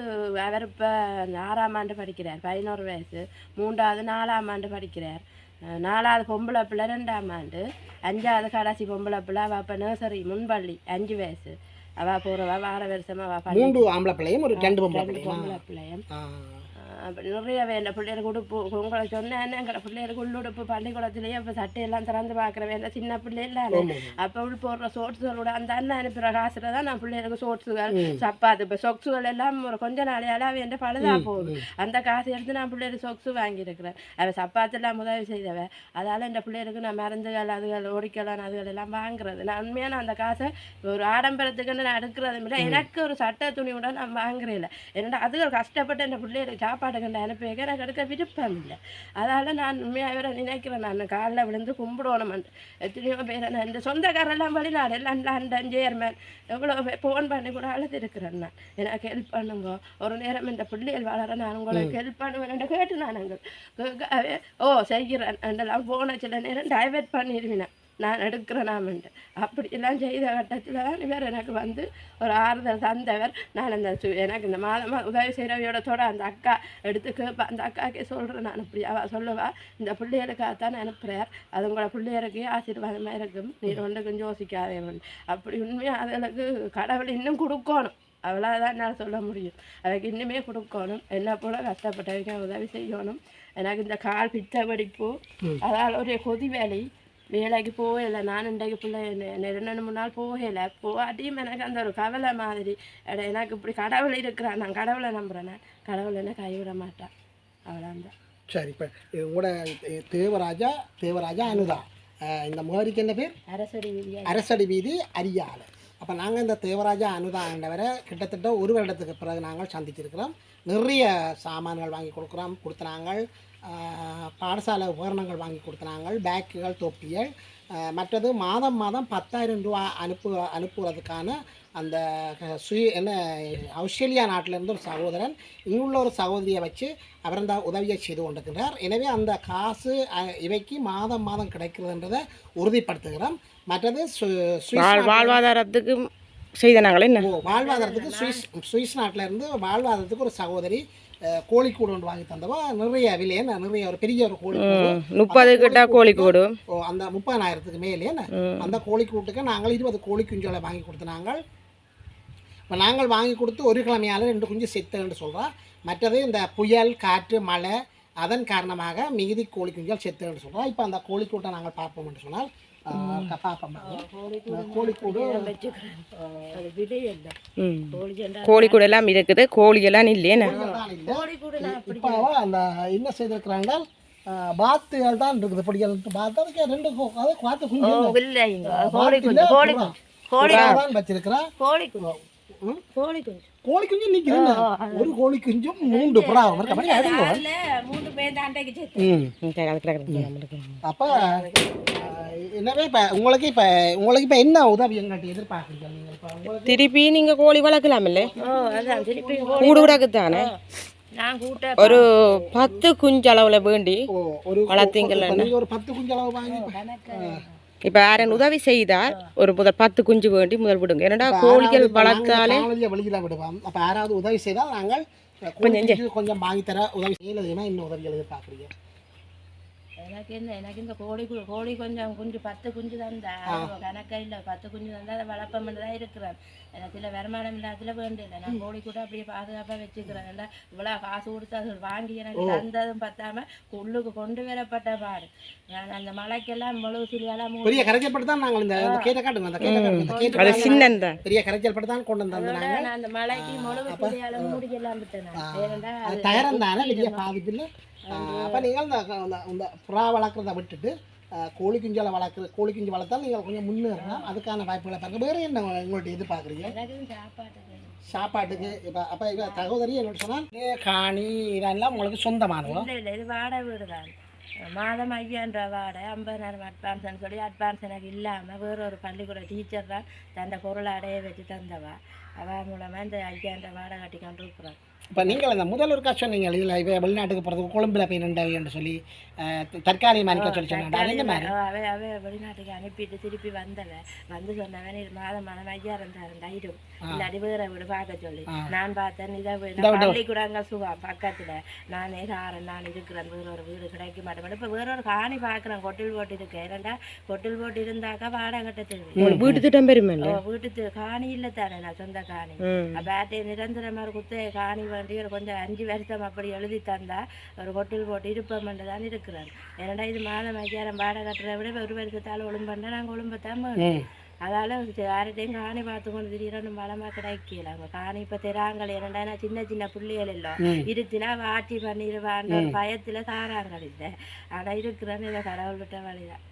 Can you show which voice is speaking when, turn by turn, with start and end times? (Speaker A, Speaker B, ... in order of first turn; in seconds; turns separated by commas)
Speaker A: 0.4-13.8, Speaker B: 13.5-16.7, Speaker A: 14.5-16.0, Speaker A: 16.9-107.1, Speaker B: 23.8-24.2, Speaker B: 27.9-28.2, Speaker B: 31.0-31.6, Speaker B: 42.6-42.9, Speaker A: 107.7-108.1, Speaker B: 108.5-113.4, Speaker A: 111.5-111.8, Speaker A: 113.5-114.5, Speaker B: 114.3-145.4, Speaker C: 144.8-147.3, Speaker B: 147.2-161.4, Speaker A: 147.4-148.4, Speaker C: 154.5-156.5, Speaker C: 158.3-158.8, Speaker B: 162.7-175.5, Speaker C: 172.9-173.3, Speaker A: 173.8-177.4, Speaker B: 176.1-176.6, Speaker C: 177.6-180.6, Speaker A: 177.9-178.9, Speaker A: 180.3-182.3, Speaker B: 180.4-191.5, Speaker A: 187.8-190.8, Speaker C: 190.4-190.8, Speaker A: 191.6-192.2, Speaker B: 192.0-192.8, Speaker A: 192.9-193.5, Speaker B: 193.6-197.4, Speaker A: 194.3-195.2, Speaker A: 195.8-199.1, Speaker B: 199.0-199.3, Speaker C: 199.4-200.8, Speaker B: 200.8-201.3, Speaker A: 201.1-202.4, Speaker B: 202.0-206.8, Speaker C: 206.6-208.3, Speaker B: 208.2-209.9, Speaker A: 208.4-210.6, Speaker C: 209.6-210.5, Speaker A: 211.2-212.7, Speaker C: 211.8-214.1, Speaker B: 214.1-217.4, Speaker C: 214.7-215.5, Speaker A: 216.4-217.6, Speaker C: 217.9-222.7, Speaker B: 218.2-218.4, Speaker B: 221.2-228.7, Speaker C: 225.6-226.0, Speaker A: 230.0-247.9, Speaker B: 242.4-242.7, Speaker B: 247.6-254.6, Speaker A: 248.8-249.1, Speaker C: 249.6-251.2, Speaker A: 249.9-251.2, Speaker A: 252.3-257.3, Speaker B: 255.4-266.8, Speaker A: 258.1-258.7, Speaker A: 264.0-264.4, Speaker A: 266.6-268.8, Speaker B: 268.1-272.9, Speaker A: 269.4-269.7, Speaker A: 272.6-274.1, Speaker A: 274.7-285.4, Speaker B: 285.1-291.5, Speaker A: 290.3-309.4, Speaker B: 299.8-300.2, Speaker B: 309.2-309.6, Speaker C: 309.2-310.4, Speaker A: 310.2-336.4, Speaker C: 312.7-313.0, Speaker B: 323.8-324.1, Speaker B: 330.6-330.9, Speaker B: 332.5-332.8